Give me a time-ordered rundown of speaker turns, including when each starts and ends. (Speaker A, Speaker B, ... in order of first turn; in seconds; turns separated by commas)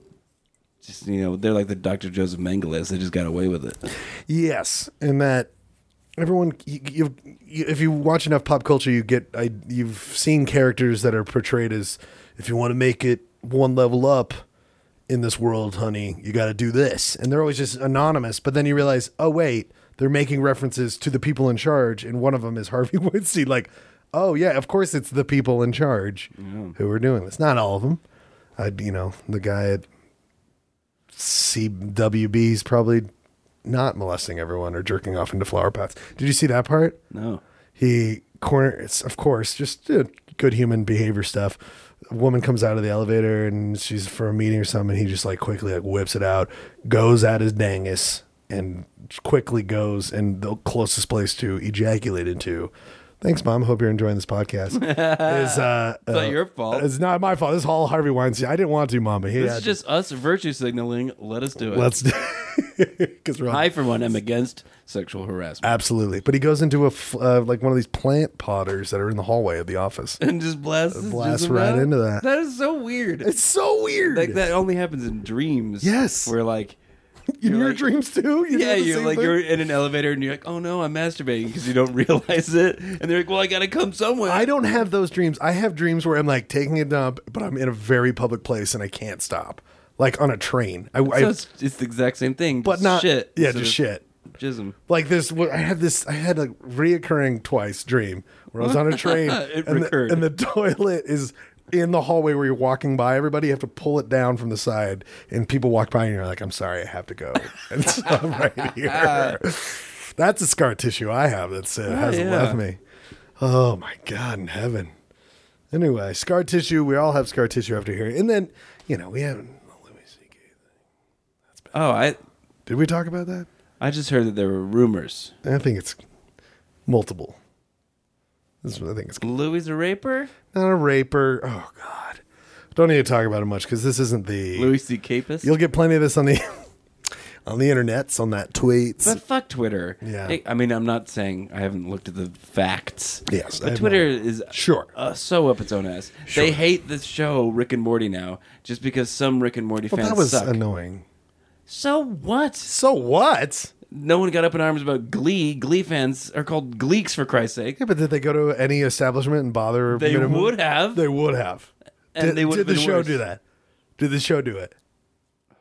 Speaker A: 0.8-3.8, Speaker B: 4.3-5.5, Speaker B: 6.2-14.4, Speaker B: 15.1-28.0, Speaker A: 26.3-26.8, Speaker B: 28.6-29.9, Speaker B: 31.1-33.1, Speaker B: 33.6-37.0, Speaker A: 37.1-37.4, Speaker B: 37.8-59.7, Speaker A: 54.7-56.9, Speaker A: 59.4-61.9, Speaker B: 61.7-63.7, Speaker A: 63.5-65.7, Speaker B: 65.6-70.2, Speaker A: 70.2-73.3, Speaker B: 70.9-72.2, Speaker B: 73.2-74.4, Speaker A: 74.0-76.8, Speaker B: 75.8-76.3, Speaker B: 77.4-79.4, Speaker A: 77.4-77.8, Speaker A: 78.5-84.5, Speaker B: 84.2-91.4, Speaker A: 91.0-93.8, Speaker B: 92.6-94.0, Speaker A: 94.3-94.8, Speaker B: 94.9-112.8, Speaker A: 98.6-100.3, Speaker A: 108.6-109.4, Speaker A: 111.9-112.6, Speaker B: 113.4-114.9, Speaker B: 115.7-120.5, Speaker A: 121.7-122.2, Speaker B: 122.7-123.5, Speaker A: 123.8-125.3, Speaker B: 125.4-126.0, Speaker B: 126.8-127.4, Speaker B: 128.6-129.2, Speaker A: 129.2-130.3, Speaker B: 130.5-132.2, Speaker B: 132.7-134.7, Speaker A: 134.5-135.5, Speaker B: 135.4-136.6, Speaker B: 137.4-139.2, Speaker A: 139.0-150.6, Speaker B: 140.0-140.4, Speaker B: 143.3-144.9, Speaker B: 146.3-146.6, Speaker B: 149.9-151.0, Speaker A: 151.7-152.7, Speaker B: 152.7-153.7, Speaker A: 153.9-157.8, Speaker B: 157.8-163.4, Speaker A: 159.9-161.0, Speaker A: 162.1-163.2, Speaker B: 164.0-164.7